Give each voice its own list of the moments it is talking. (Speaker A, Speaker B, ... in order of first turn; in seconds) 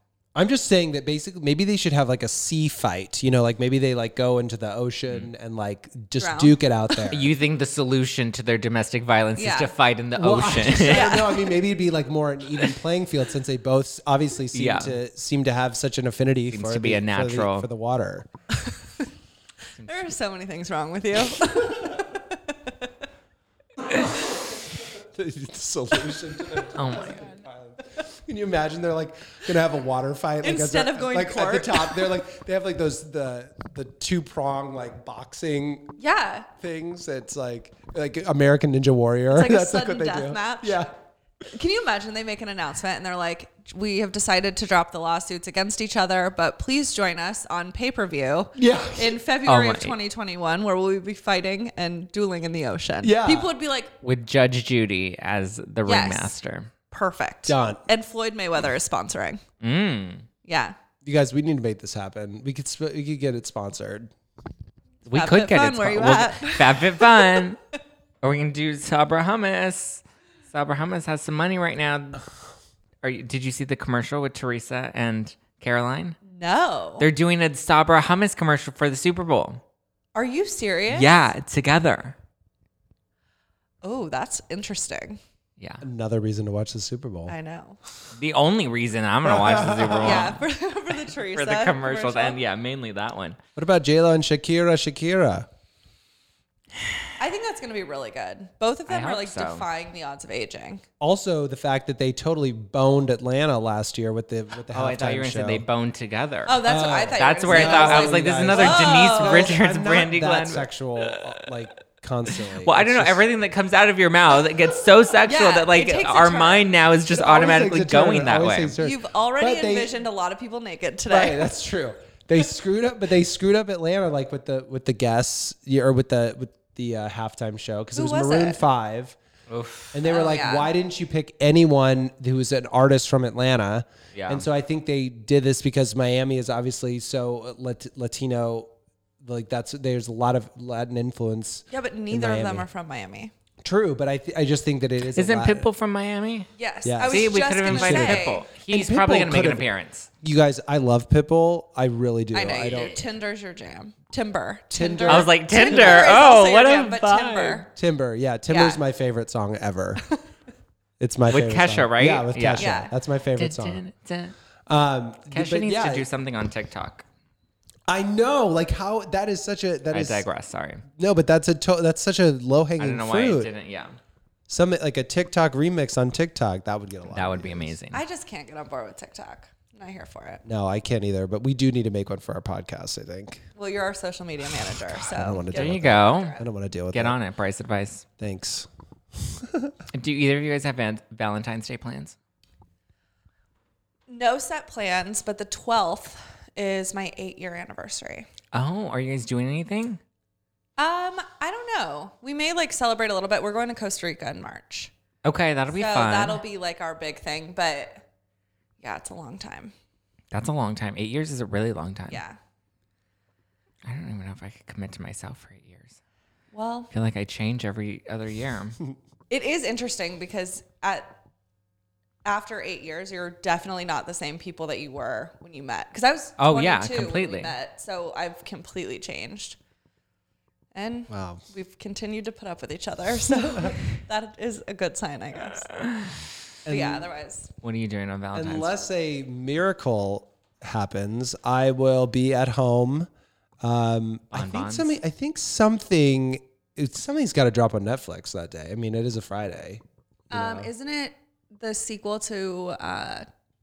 Speaker A: 0.3-7.3, 10.1-18.3, 24.9-36.0, 36.6-40.9, 48.5-49.2, 53.0-53.5, 57.5-57.8, 61.0-64.1, 85.8-87.3, 89.2-90.3, 93.5-95.5, 101.0-105.6, 106.6-113.2, 117.1-119.9, 121.1-129.2, 129.9-138.7, 139.2-142.6, 143.6-145.7, 146.8-149.7, 150.2-152.9, 154.7-156.1, 157.7-160.0, 161.0-163.8, 164.7-166.1, 167.9-170.2, 170.9-173.5, 174.5-177.7, 180.4-183.4, 184.9-187.2, 188.2-189.7, 231.1-231.4, 233.3-233.7, 236.6-237.1, 238.3-243.1, 243.6-250.7
Speaker B: 6.2-7.1, 9.4-9.7, 10.8-11.5, 18.6-19.0, 19.8-22.9, 30.4-32.1, 36.0-36.5, 39.3-40.9, 41.5-53.9, 55.9-56.3, 56.9-59.4, 60.4-60.8, 65.1-67.5, 76.2-77.1, 80.1-81.3, 83.8-85.2, 87.3-87.8, 90.0-92.4, 97.2-100.8, 106.5-109.6, 115.2-116.7, 118.8-121.5, 127.9-128.6, 130.1-130.7, 141.7-143.3, 146.6-148.4, 152.3-157.7, 158.5-158.8, 162.6-162.9, 177.9-180.4, 183.6-186.4, 194.1-198.3, 200.8-204.9, 205.7-208.0, 208.8-209.7, 212.1-212.4, 216.5-216.9, 219.3-221.1, 222.2-229.6, 230.7-235.7, 236.7-237.5, 250.3-253.2
Speaker C: 7.1-11.2, 14.5-14.9, 16.5-17.7, 19.8-20.1, 26.7-27.3, 49.5-50.0, 54.0-56.7, 59.6-60.2, 65.0-67.6, 68.2-72.2, 73.0-76.2, 77.0-79.6, 80.9-82.1, 85.6-85.8, 88.2-90.4, 91.2-93.4, 98.9-99.7, 104.7-106.6, 107.1-111.5, 112.3-118.7, 129.5-130.0, 134.1-134.4, 145.1-146.5, 147.1-150.1, 152.6-152.9, 155.1-157.6, 161.3-162.8, 163.3-164.3, 165.3-167.0, 169.9-170.8, 172.8-174.0, 177.1-178.0, 185.5-186.4, 186.9-188.0, 189.9-192.1, 198.5-200.0, 205.2-206.4, 210.3-212.2, 213.8-216.0, 216.9-218.8, 226.4-227.5, 235.8-236.2, 237.6-238.7, 244.3-244.9